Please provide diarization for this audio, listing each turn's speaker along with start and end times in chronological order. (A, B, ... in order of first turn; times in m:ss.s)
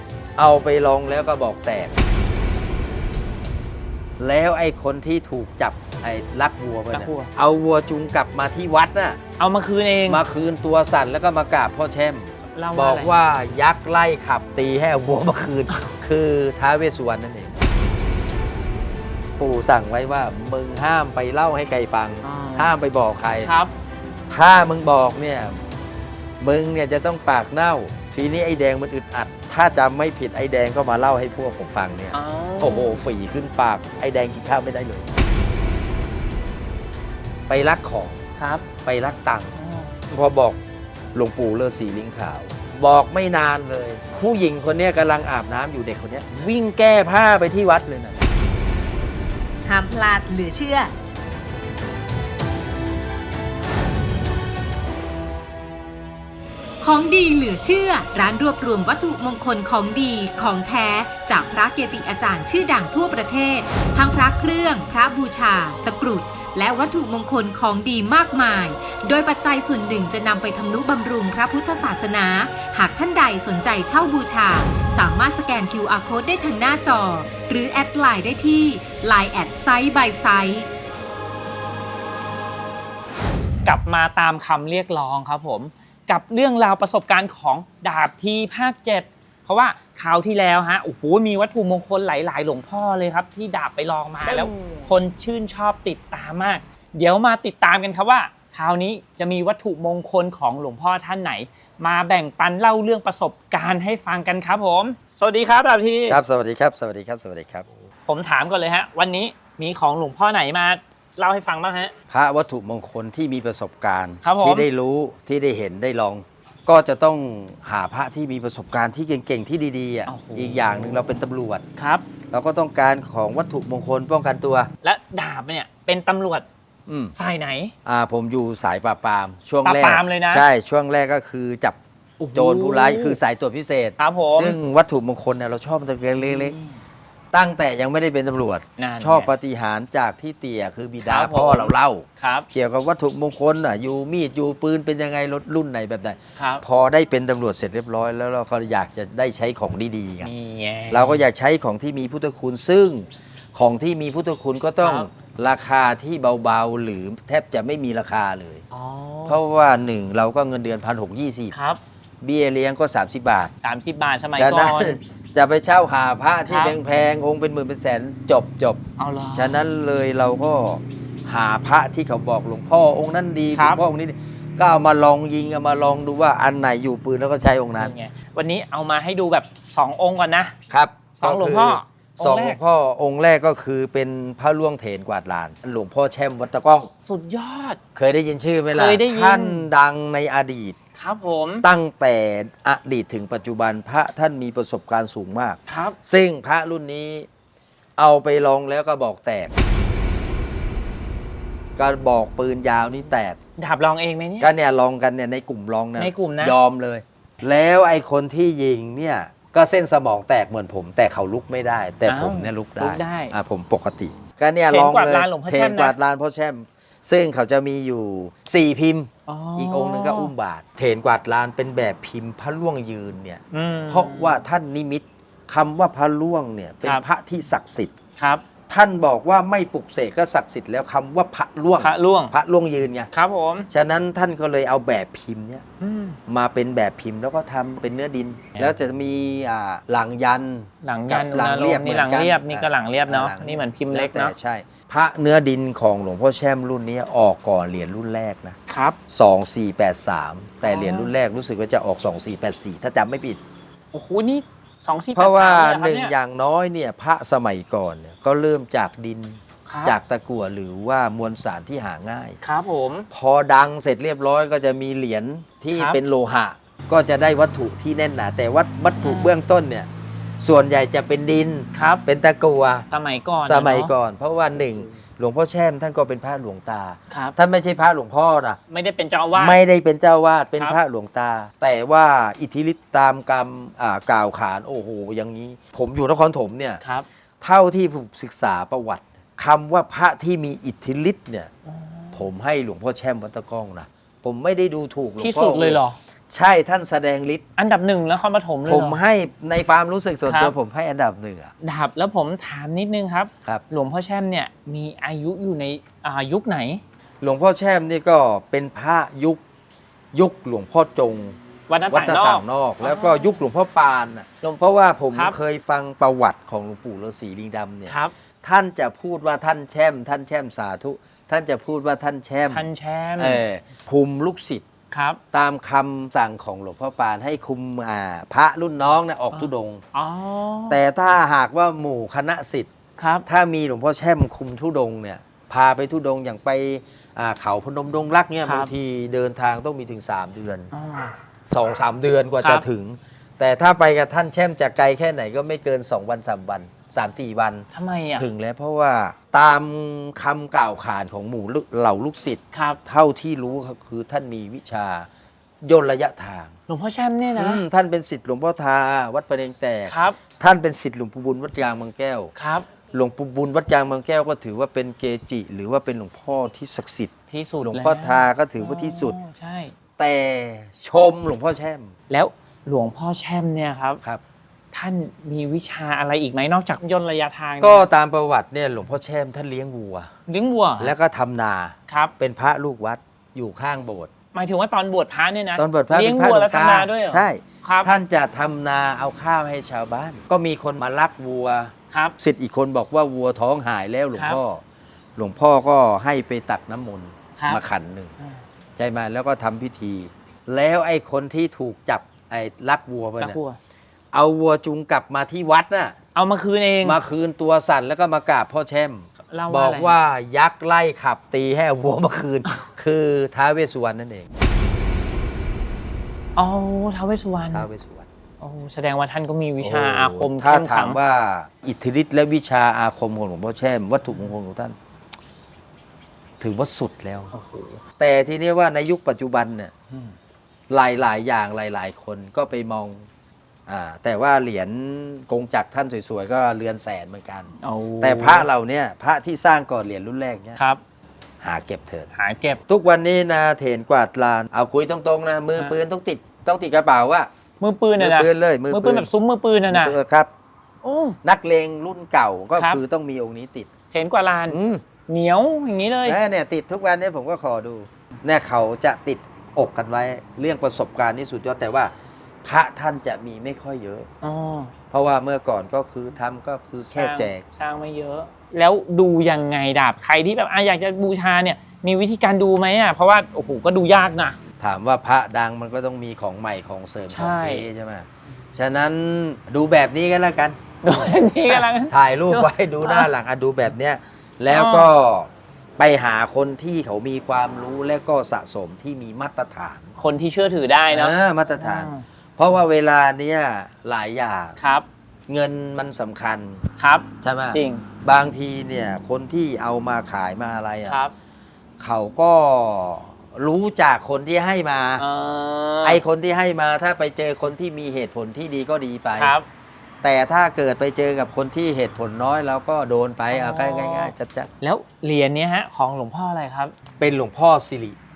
0:00.4-0:01.9 A
0:04.2-0:09.2 A
0:06.9-0:07.3 B
0:09.4-0:10.2 B
0:10.1-0:17.6 A
0:12.6-0:13.2 B
0:19.4-0:23.5 A
0:22.2-0:22.7 B
0:23.4-0:23.7 B
0:24.3-0:25.6 A
0:26.4-0:35.1 A
0:32.1-0:33.0 B
0:37.5-0:38.2 A
0:38.4-0:38.7 B
0:38.8-0:39.6 A
0:39.6-0:40.0 B
0:40.1-0:40.6 A
0:41.1-0:48.2 A
0:49.7-0:50.9 C
0:56.8-1:20.7 C
1:23.6-1:46.2 B
1:46.1-1:47.7 A
1:48.1-1:51.9 B
1:52.1-2:01.6 A
1:54.2-1:54.7 B
2:00.1-2:01.2 B
2:01.8-2:02.0 B
2:02.3-2:04.7 A
2:04.8-2:06.5 B
2:06.9-2:07.2 A
2:07.2-2:07.7 B
2:07.8-2:11.8 A
2:09.6-2:10.5 B
2:12.2-2:13.2 B
2:12.3-2:16.6 A
2:14.0-2:14.6 B
2:16.2-2:16.8 B
2:17.3-2:30.3 A
2:18.8-2:19.3 B
2:21.0-2:22.5 B
2:26.4-2:26.6 B
2:30.2-2:31.2 B
2:30.9-2:38.6 A
2:34.8-2:35.1 B
2:38.7-2:39.4 B
2:39.3-2:41.6 A
2:41.5-2:41.8 B
2:42.2-2:43.5 A
2:43.6-2:45.0 B
2:44.3-2:48.8 A
2:46.5-2:46.8 B
2:49.0-2:49.6 B
2:49.3-2:57.9 A
2:53.6-2:53.8 B
2:57.8-3:00.6 B
3:00.7-3:06.9 A
3:01.2-3:02.6 B
3:07.0-3:07.8 B
3:08.0-3:10.8 A
3:08.7-3:09.7 B
3:11.0-3:11.7 B
3:11.6-3:17.3 A
3:15.7-3:16.0 B
3:18.0-3:19.5 A
3:21.8-3:23.4 A
3:23.6-3:24.5 B
3:24.4-3:47.9 A
3:26.0-3:26.6 B
3:32.0-3:33.3 B
3:34.7-3:36.0 B
3:39.3-3:40.3 B
3:43.5-3:44.4 B
3:48.2-3:48.4 B
3:48.7-3:53.1 A
3:51.8-3:52.4 B
3:53.1-3:53.7 B
3:53.7-3:55.6 A
3:55.8-3:56.2 B
3:56.3-4:08.6 A
4:00.8-4:04.3 B
4:08.7-4:09.0 B
4:09.1-4:13.4 A
4:10.6-4:11.1 B
4:13.9-4:16.2 B
4:15.2-4:22.4 A
4:19.7-4:20.0 B
4:22.4-4:23.1 B
4:23.1-4:29.9 A
4:25.7-4:26.0 B
4:29.0-4:29.3 B
4:30.4-4:32.9 A
4:31.7-4:32.0 B
4:32.9-4:33.9 B
4:33.4-4:38.6 A
4:37.1-4:37.4 B
4:38.7-4:39.6 B
4:39.4-4:46.8 A
4:46.8-4:47.1 B
4:47.4-4:51.5 A
4:51.7-4:52.3 B
4:52.1-4:57.4 A
4:55.2-4:56.0 B
4:57.6-4:59.0 B
4:58.7-5:01.5 A
5:00.2-5:00.6 B
5:01.6-5:06.8 B
5:07.2-5:09.4 A
5:10.1-5:11.4 A
5:11.7-5:13.4 B
5:11.9-5:24.7 A
5:15.1-5:15.4 B
5:17.9-5:18.1 B
5:22.5-5:23.4 B
5:24.9-5:25.2 B
5:25.3-5:29.8 A
5:29.3-5:30.8 B
5:30.7-5:32.7 A
5:33.0-5:33.3 B
5:33.3-5:40.7 A
5:38.4-5:38.7 B
5:40.7-5:41.1 B
5:41.5-5:55.1 A
5:42.4-5:42.7 B
5:47.7-5:48.3 B
5:52.5-5:52.8 B
5:55.6-5:56.6 A
5:56.7-5:57.6 B
5:57.4-6:02.3 A
5:59.9-6:00.2 B
6:02.4-6:02.7 B
6:02.9-6:07.1 A
6:07.3-6:09.7 B
6:07.6-6:09.2 A
6:10.0-6:11.9 A
6:12.1-6:14.0 B
6:14.7-6:17.8 B
6:17.6-6:20.1 A
6:20.3-6:21.0 B
6:20.8-6:24.1 A
6:21.9-6:22.1 B
6:24.3-6:27.9 B
6:25.6-6:34.6 A
6:31.9-6:32.2 B
6:34.2-6:34.4 B
6:35.2-6:38.1 A
6:37.4-6:37.6 B
6:38.8-6:43.4 A
6:43.2-6:43.6 B
6:44.1-6:46.0 A
6:46.2-6:47.0 B
6:46.8-6:54.3 A
6:49.3-6:50.0 B
6:56.4-6:57.7 B
6:57.5-6:58.1 A
6:58.4-7:01.0 B
6:59.6-7:04.8 A
7:06.4-7:07.3 A
7:07.3-7:07.8 B
7:08.0-7:09.7 A
7:10.7-7:13.1 A
7:13.7-7:20.6 A
7:17.6-7:18.5 B
7:21.4-7:22.1 A
7:22.1-7:22.6 B
7:22.7-7:27.3 A
7:27.6-7:30.0 B
7:28.0-7:29.1 A
7:29.7-7:30.3 A
7:30.8-7:31.2 B
7:31.2-7:33.7 A
7:32.6-7:32.8 B
7:33.9-7:36.2 B
7:34.5-7:34.8 A
7:36.0-7:41.9 A
7:42.4-7:44.1 A
7:44.2-7:44.7 B
7:44.9-7:47.4 A
7:46.9-7:54.4 B
7:54.6-8:09.9 A
7:57.1-7:57.7 B
8:00.8-8:03.1 B
8:04.5-8:04.9 B
8:10.0-8:12.0 B
8:10.9-8:14.6 A
8:14.6-8:14.9 B
8:15.3-8:16.6 A
8:16.8-8:17.8 B
8:17.2-8:21.0 A
8:20.9-8:21.1 B
8:21.8-8:25.0 A
8:25.0-8:26.0 B
8:25.8-8:29.4 A
8:29.2-8:29.5 B
8:30.0-8:34.5 A
8:33.3-8:36.8 B
8:37.0-8:38.0 A